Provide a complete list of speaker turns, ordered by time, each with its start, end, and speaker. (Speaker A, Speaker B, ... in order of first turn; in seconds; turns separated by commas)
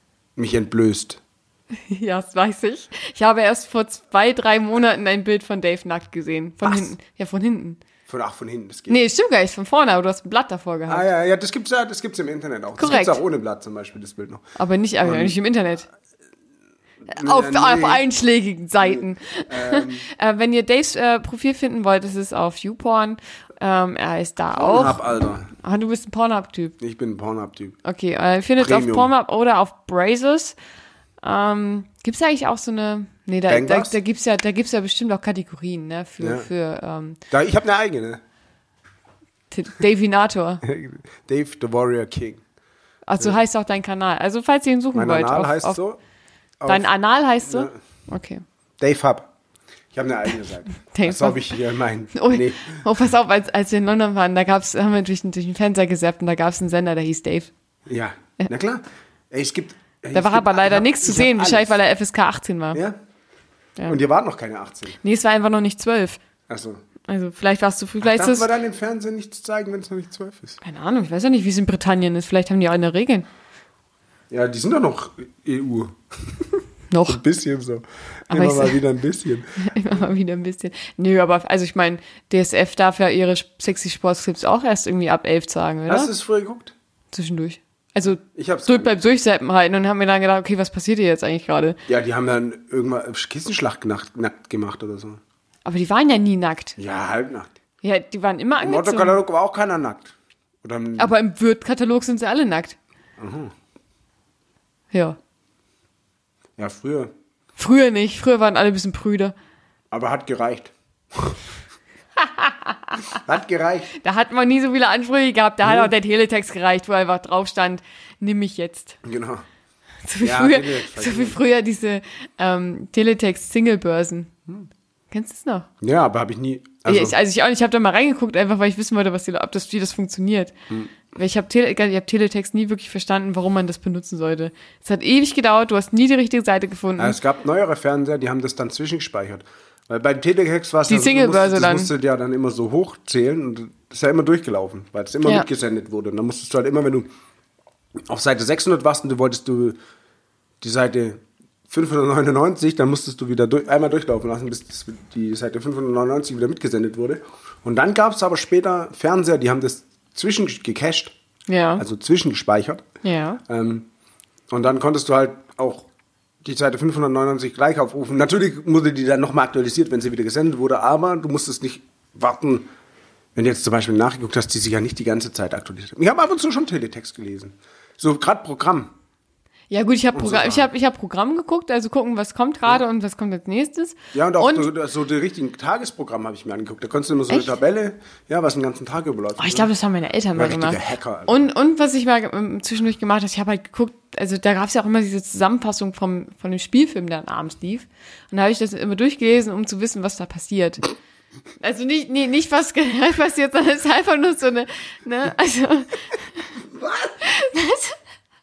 Speaker A: 0.3-1.2, Speaker B: 1.9-7.8, Speaker A: 6.6-6.9, Speaker A: 8.1-9.0, Speaker B: 8.9-11.1, Speaker A: 10.9-14.4, Speaker B: 12.8-13.2, Speaker B: 14.6-15.9, Speaker A: 15.0-15.3, Speaker A: 17.1-18.1, Speaker B: 17.1-25.0, Speaker A: 18.8-20.1, Speaker A: 24.5-25.5, Speaker B: 25.6-26.8, Speaker A: 26.8-27.8, Speaker B: 27.8-30.6, Speaker A: 28.6-29.1, Speaker B: 31.2-37.2, Speaker A: 33.5-34.0, Speaker A: 36.2-36.5, Speaker A: 37.3-38.2, Speaker B: 39.5-40.6, Speaker A: 40.6-42.4, Speaker B: 43.1-45.8, Speaker A: 44.9-46.0, Speaker A: 46.6-46.9, Speaker B: 46.6-48.4, Speaker A: 47.4-47.8, Speaker A: 48.8-49.3, Speaker A: 49.9-52.8, Speaker B: 50.9-51.5, Speaker B: 52.1-57.5, Speaker A: 57.9-61.8, Speaker B: 60.1-62.8, Speaker A: 63.9-65.0, Speaker B: 64.9-66.2, Speaker A: 66.5-66.8, Speaker B: 67.1-68.5, Speaker A: 68.0-70.6, Speaker B: 70.6-73.3, Speaker A: 74.3-80.0, Speaker B: 76.9-77.2, Speaker B: 78.3-78.8, Speaker B: 79.6-86.1, Speaker A: 85.9-86.7, Speaker B: 87.1-91.8, Speaker A: 88.2-89.0, Speaker A: 91.9-95.2, Speaker B: 95.7-96.8, Speaker A: 96.8-97.5, Speaker B: 97.8-99.2, Speaker A: 98.6-101.1, Speaker B: 101.0-102.8, Speaker A: 103.2-103.5, Speaker B: 104.9-105.2, Speaker A: 106.6-107.1, Speaker B: 107.6-109.3, Speaker A: 109.9-111.4, Speaker B: 112.2-113.2, Speaker A: 113.1-113.9, Speaker B: 113.9-119.0, Speaker A: 115.6-115.9, Speaker A: 119.0-119.4, Speaker B: 120.1-124.3, Speaker A: 120.2-121.4, Speaker B: 125.1-125.7, Speaker A: 125.8-127.2, Speaker B: 126.9-130.5, Speaker B: 131.1-137.2, Speaker A: 137.0-147.1, Speaker B: 140.9-141.9, Speaker A: 148.1-149.8, Speaker A: 150.6-161.2, Speaker B: 161.5-161.8, Speaker A: 161.8-162.9, Speaker B: 163.0-163.4, Speaker A: 163.4-163.9, Speaker A: 164.5-165.9, Speaker A: 166.4-172.7, Speaker A: 173.3-178.9, Speaker B: 179.7-184.7, Speaker A: 180.1-180.7, Speaker A: 184.1-189.7, Speaker B: 189.4-200.9, Speaker A: 190.3-191.4, Speaker B: 201.6-206.6, Speaker A: 206.6-207.2, Speaker B: 207.2-208.0